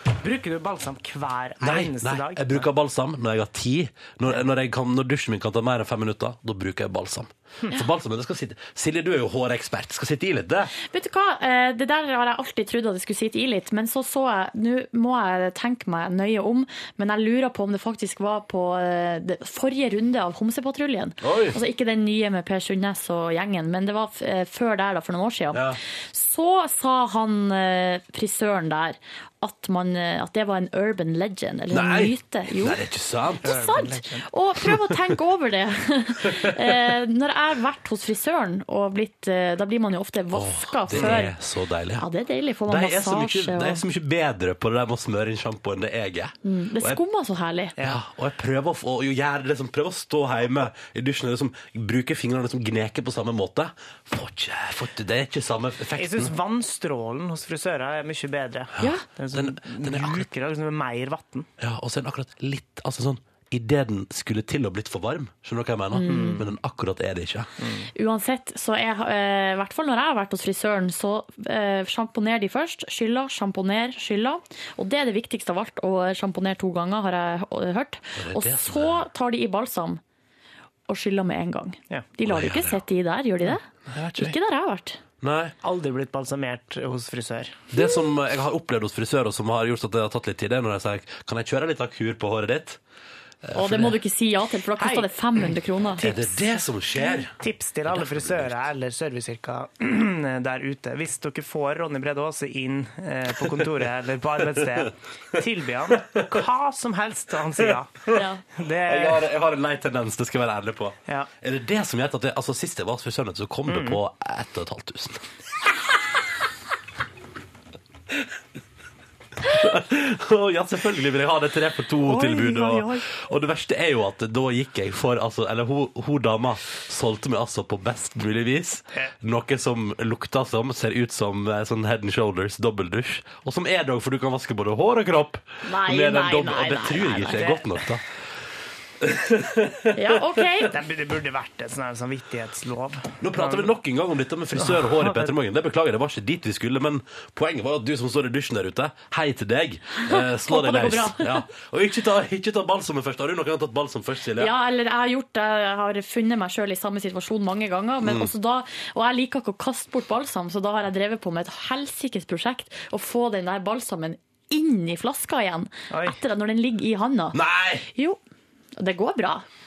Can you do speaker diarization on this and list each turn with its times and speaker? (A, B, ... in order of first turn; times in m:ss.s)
0:00.2-0:02.7 A
0:01.6-0:10.7 B
0:10.8-0:32.8 C
0:21.2-0:21.6 B
0:25.5-0:25.8 B
0:31.7-0:33.5 B
0:33.4-0:34.3 A
0:33.4-0:41.4 C
0:36.3-0:36.6 B
0:40.3-0:42.1 B
0:40.9-0:41.2 A
0:42.0-0:43.8 C
0:42.7-0:47.0 B
0:46.4-0:47.8 C
0:47.8-0:56.3 B
0:56.0-1:01.5 A
0:58.8-0:59.0 C
0:58.8-1:00.3 B
1:01.6-1:07.5 B
1:05.9-1:06.4 C
1:06.1-1:06.4 A
1:07.6-1:07.9 A
1:08.0-1:20.0 C
1:18.2-1:19.0 B
1:20.9-1:23.7 C
1:22.2-1:22.8 B
1:23.9-1:24.3 A
1:24.2-1:25.0 C
1:25.2-1:25.6 B
1:25.6-1:27.6 A
1:27.7-1:32.8 B
1:33.4-1:34.0 B
1:33.5-1:36.0 C
1:34.8-1:35.1 A
1:36.0-1:47.9 A
1:36.0-1:37.3 B
1:37.9-1:38.6 B
1:48.1-1:48.4 C
1:48.6-1:49.3 A
1:48.8-1:55.2 B
1:53.7-1:54.0 A
1:59.4-2:18.0 B
2:02.0-2:03.0 A
2:15.6-2:17.5 C
2:17.3-2:17.7 A
2:19.0-2:20.0 B
2:19.9-2:20.8 C
2:20.7-2:23.7 A
2:23.2-2:34.5 B
2:24.6-2:25.3 A
2:30.0-2:31.4 C
2:34.4-2:48.2 C
2:38.0-2:38.3 B
2:45.9-2:46.2 A
2:47.3-2:47.9 B
2:48.8-2:49.5 C